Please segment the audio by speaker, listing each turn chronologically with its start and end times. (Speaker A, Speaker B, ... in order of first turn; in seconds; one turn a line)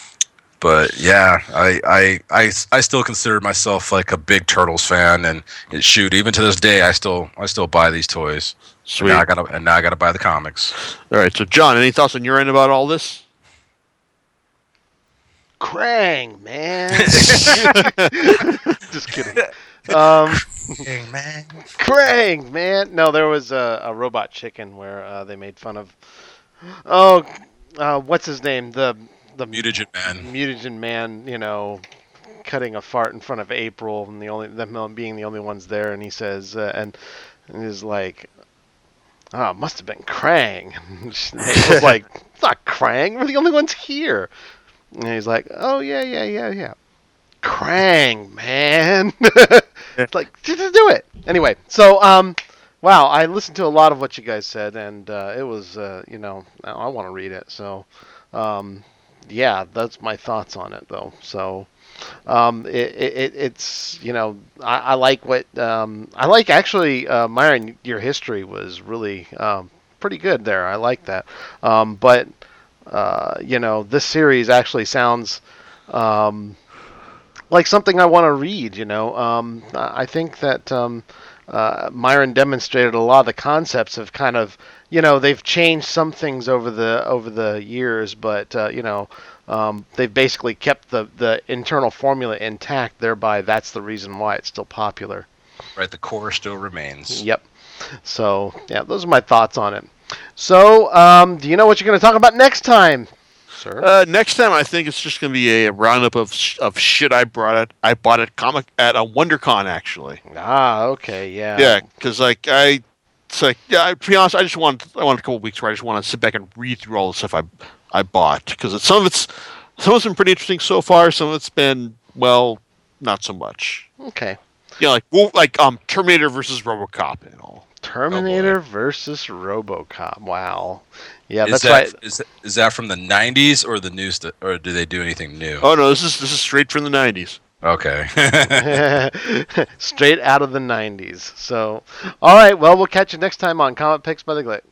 Speaker A: 0.6-10.7
Speaker B: 8.8-9.2
Speaker B: 11.1-13.2
Speaker C: 15.6-20.8
Speaker A: 17.0-17.7
Speaker B: 17.3-18.6
Speaker A: 20.8-21.6
Speaker C: 21.8-26.0
Speaker C: 26.8-31.8
Speaker A: 29.5-30.2
Speaker C: 32.4-37.0
Speaker C: 37.5-38.3
Speaker C: 39.3-44.3
Speaker C: 44.9-46.7
Speaker C: 47.4-61.7
Speaker C: 62.3-72.3
Speaker C: 72.9-76.6
Speaker C: 77.5-95.3
Speaker A: 95.8-97.2
Speaker C: 97.1-103.9
Speaker B: 103.8-110.2
Speaker C: 110.3-111.8
Speaker B: 111.5-123.9
Speaker C: 124.0-124.4
Speaker B: 124.8-127.6
Speaker C: 127.8-131.9
Speaker A: 128.1-128.6
Speaker A: 131.4-135.6
Speaker B: 135.6-137.4
Speaker A: 137.6-138.8
Speaker C: 138.5-144.6